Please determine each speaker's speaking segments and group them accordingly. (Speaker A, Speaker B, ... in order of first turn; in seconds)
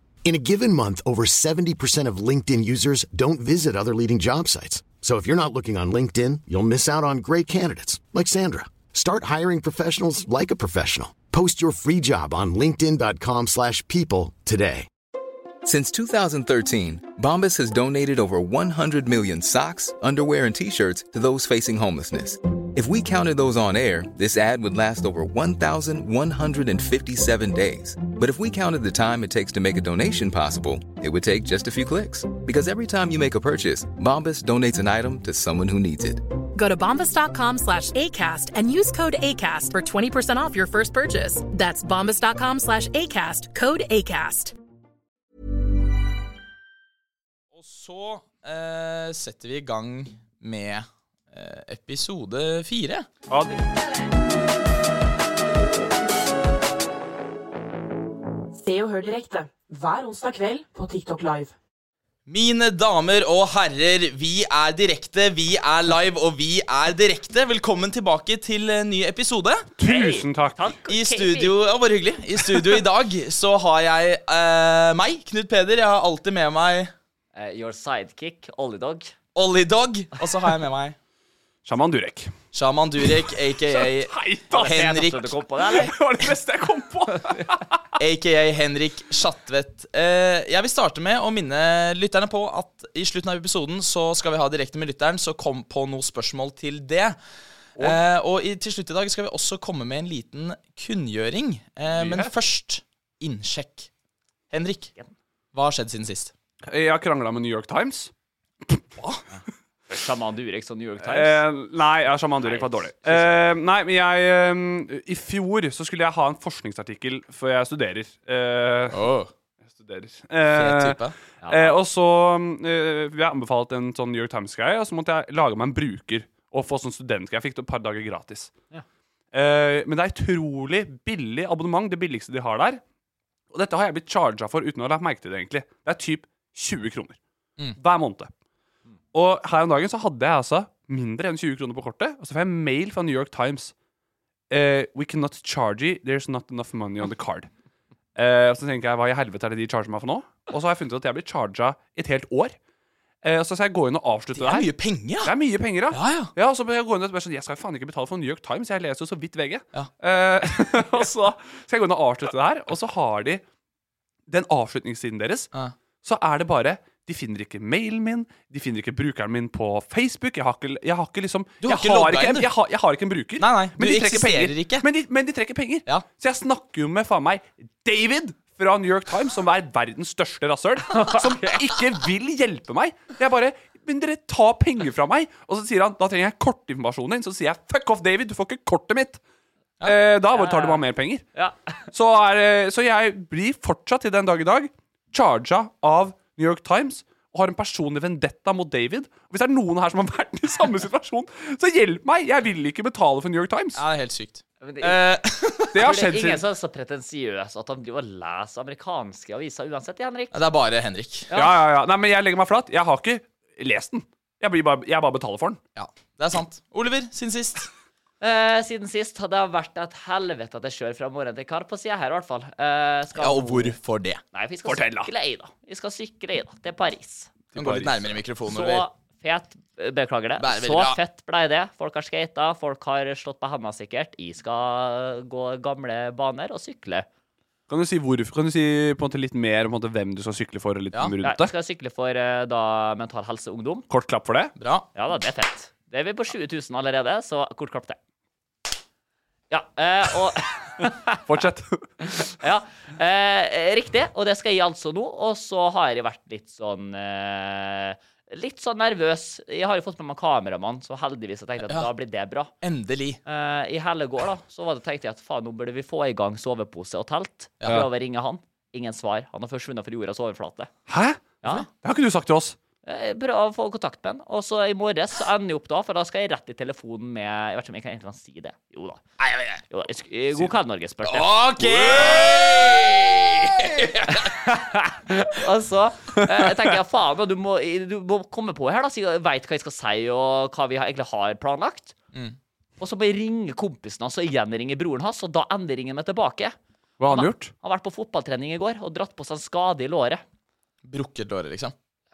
Speaker A: 0.2-14.9
Speaker B: 15.7-36.2
Speaker C: 36.6-44.5
Speaker D: 47.5-53.1, 62.3-69.7, 70.9-76.9, 79.3-81.0, 82.5-85.4, 88.0-97.2, 97.8-103.9, 104.5-104.9, 105.5-106.3, 109.0-109.2, 118.9-119.3, 120.5-121.2, 154.3-155.3, 155.9-156.3, 171.6-172.5, 173.4-174.9, 203.8-205.8, 210.3-211.3, 215.8-217.7, 223.2-224.2, 227.5-228.9, 230.4-231.0, 244.6-244.9, 262.6-263.2, 267.6-267.9, 279.2-279.6, 281.1-284.2, 300.8-301.7
Speaker E: 58.5-61.5
Speaker F: 69.8-70.7, 81.7-82.3, 83.6-84.8, 85.7-87.7, 101.9-102.3, 106.7-108.1, 111.0-119.1, 119.8-128.5, 129.3-132.8, 133.5-137.2, 137.8-138.3, 139.1-143.7, 144.5-147.5, 148.2-152.6, 153.2-163.4, 164.3-165.5, 166.0-189.2, 189.8-191.2, 191.9-203.8, 205.7-206.4, 211.3-215.6, 224.7-225.1, 227.5-228.1, 237.7-241.5, 243.9-244.5, 251.3-251.9, 270.9-271.2, 271.8-272.6, 281.6-282.4, 297.0-297.5
Speaker G: 69.8-71.5, 77.3-79.1, 84.5-85.9, 109.9-111.4, 112.4-113.4, 121.4-121.8, 180.9-181.8, 190.3-190.8, 191.3-191.7, 204.6-205.0, 205.8-210.4, 211.3-211.6, 218.2-223.8, 224.3-227.3, 228.5-237.1, 241.2-243.9, 244.9-248.0, 249.5-251.2, 252.0-262.5, 263.2-270.7, 272.8-279.0, 279.7-281.9, 284.1-291.9, 292.8-296.6, 297.1-300.2